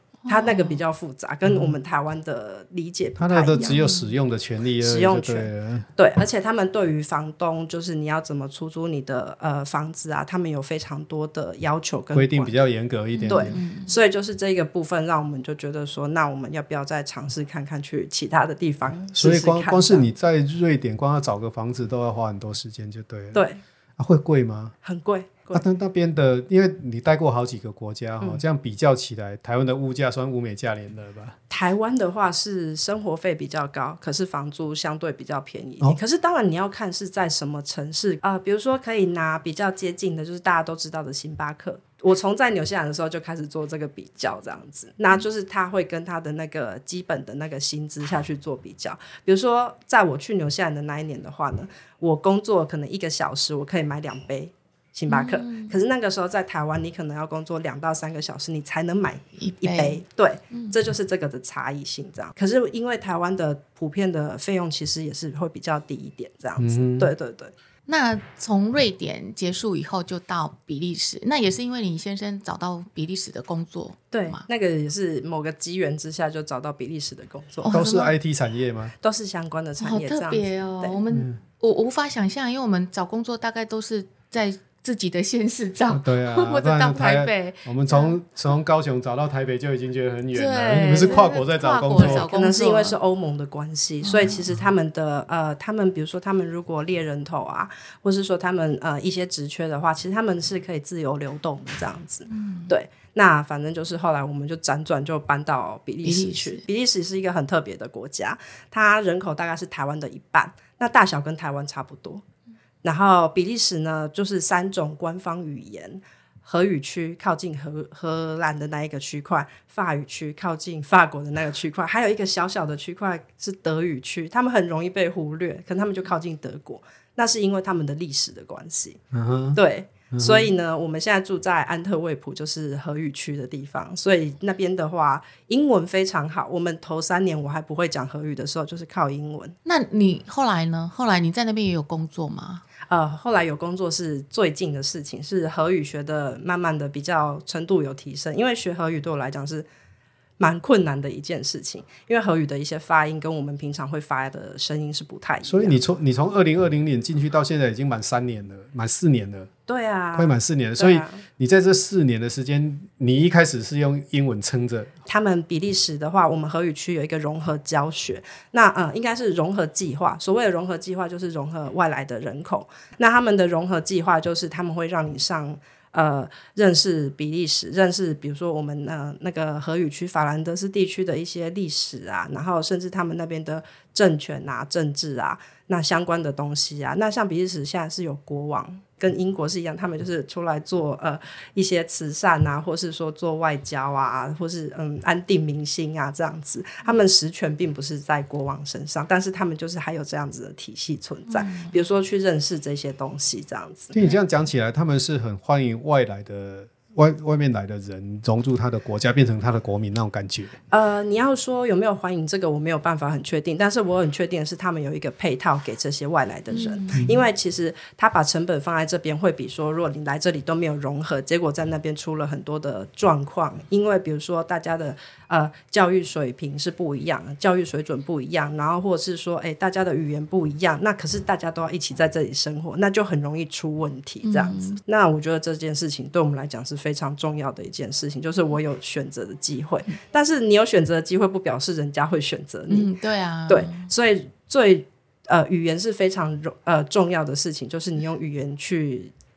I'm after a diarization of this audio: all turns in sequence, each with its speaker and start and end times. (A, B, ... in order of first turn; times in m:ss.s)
0:00.2-0:00.8 A
0:00.3-0:03.8 B
0:01.5-0:01.7 C
0:03.2-0:05.9 C
0:03.5-0:04.1 A
0:04.8-0:12.6 B
0:12.1-0:13.6 C
0:13.1-0:13.9 A
0:13.3-0:20.1 B
0:19.1-0:23.4 C
0:23.3-0:23.6 B
0:24.0-0:24.7 C
0:24.8-0:25.6 B
0:25.5-0:31.4 C
0:31.5-1:07.5 B
0:55.1-0:55.7 A
0:59.4-1:00.0 A
1:06.6-1:07.1 C
1:07.9-1:14.4 A
1:14.1-1:17.7 B
1:17.6-1:18.1 A
1:17.7-1:18.9 C
1:19.0-1:21.0 B
1:19.8-1:28.2 A
1:21.1-1:21.4 C
1:25.9-1:32.3 C
1:30.3-1:33.0 A
1:32.0-1:52.2 B
1:34.0-1:34.4 A
1:42.3-1:42.7 A
1:46.0-1:46.6 A
1:52.8-2:09.0 B
2:09.1-2:09.6 C
2:09.5-2:19.6 B
2:10.1-2:10.5 C
2:19.6-2:22.6 A
2:22.9-2:29.6 B
2:30.4-2:35.8 B
2:35.4-2:39.5 C
2:39.7-2:41.2 B
2:40.1-2:44.9 C
2:45.1-3:23.9 B
3:21.3-3:21.7 A
3:23.9-3:30.5 C
3:30.7-4:02.9 B
3:36.5-3:37.1 A
3:54.2-3:54.8 A
4:02.7-4:03.9 A
4:03.5-4:09.1 B